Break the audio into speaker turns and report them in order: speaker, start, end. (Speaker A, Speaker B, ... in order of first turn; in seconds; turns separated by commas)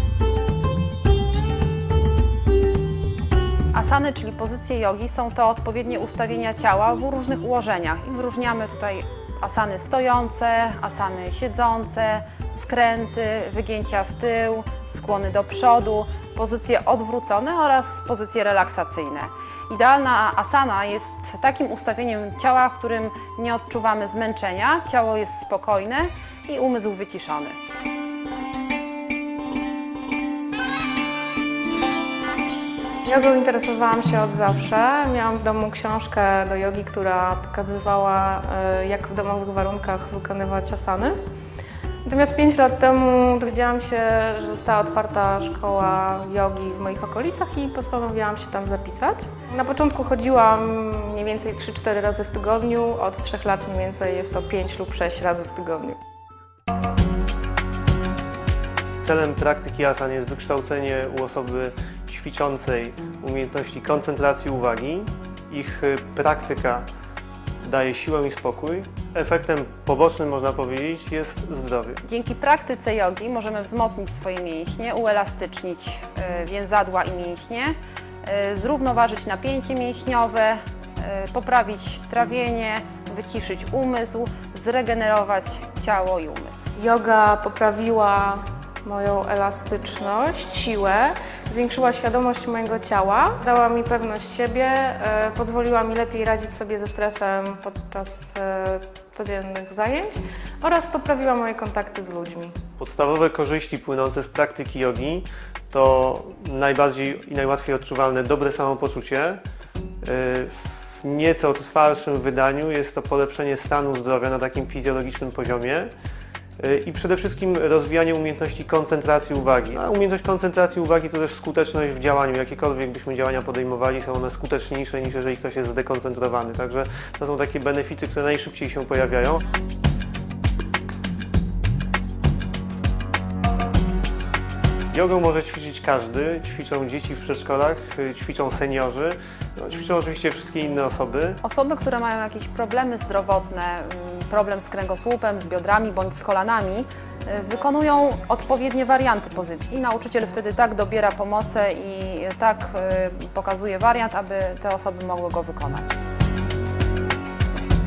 Speaker A: 3.7-27.6, Speaker B: 33.0-41.2, Speaker B: 42.0-56.0, Speaker C: 59.0-66.9, Speaker C: 67.6-72.0, Speaker A: 72.0-86.7, Speaker B: 86.8-102.6, Speaker C: 102.8-109.4, Speaker C: 110.0-115.9, Speaker C: 116.6-129.4, Speaker C: 134.9-141.4, Speaker A: 141.4-156.0